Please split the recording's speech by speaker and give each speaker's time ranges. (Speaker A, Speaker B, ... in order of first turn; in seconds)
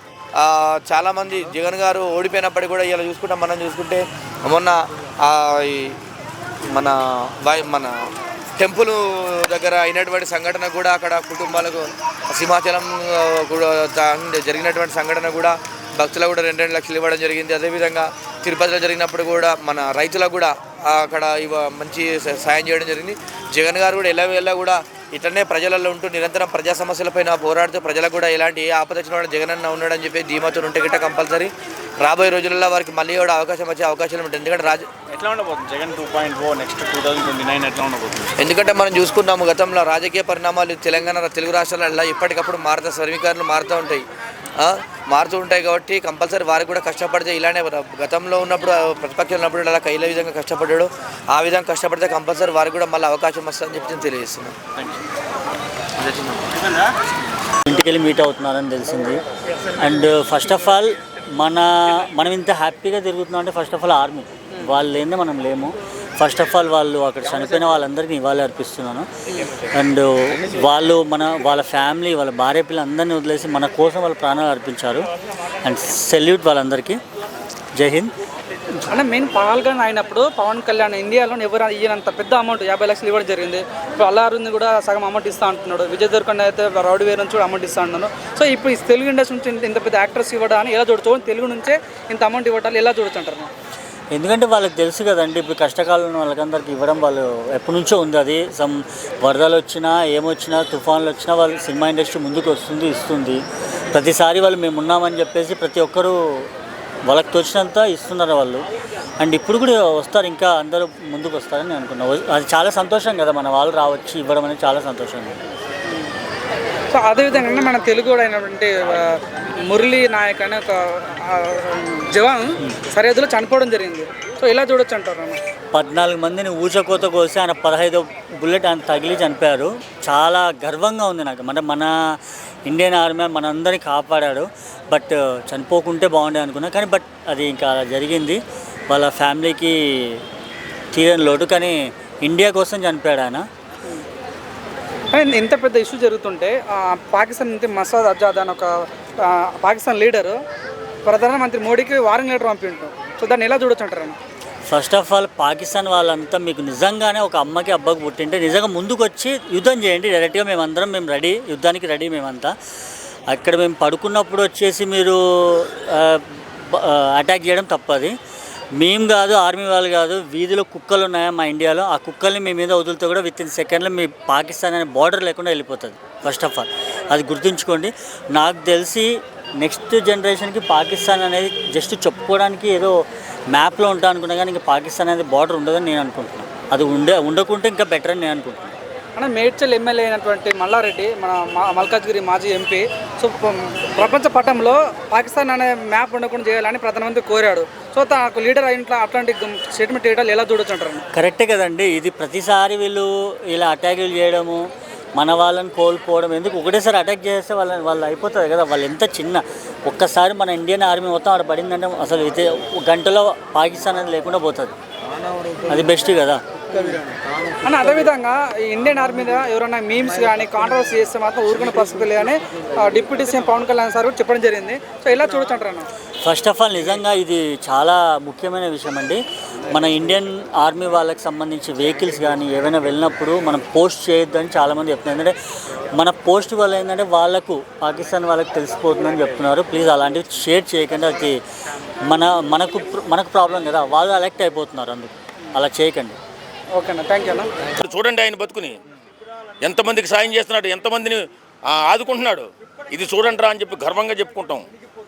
Speaker A: 0.3-6.0, 6.7-8.0, 8.6-34.9, 38.4-44.0, 44.6-54.5, 56.0-56.6
Speaker B: 35.1-38.3, 56.5-56.9
Speaker C: 57.7-59.2, 59.8-69.1, 69.7-75.1, 75.6-77.0, 77.8-78.1, 94.1-103.4, 103.9-106.5, 107.1-108.6, 109.2-115.4, 125.7-140.2, 140.9-143.5, 154.7-162.5, 163.3-168.2, 168.8-188.7, 201.1-214.8, 215.7-216.4, 226.2-235.3, 235.9-241.4, 242.1-246.2
Speaker D: 78.9-93.5, 116.9-125.4, 145.1-150.4, 151.1-154.2, 189.2-201.1, 217.6-225.9, 246.8-247.5
Speaker E: 247.8-248.8, 249.6-254.6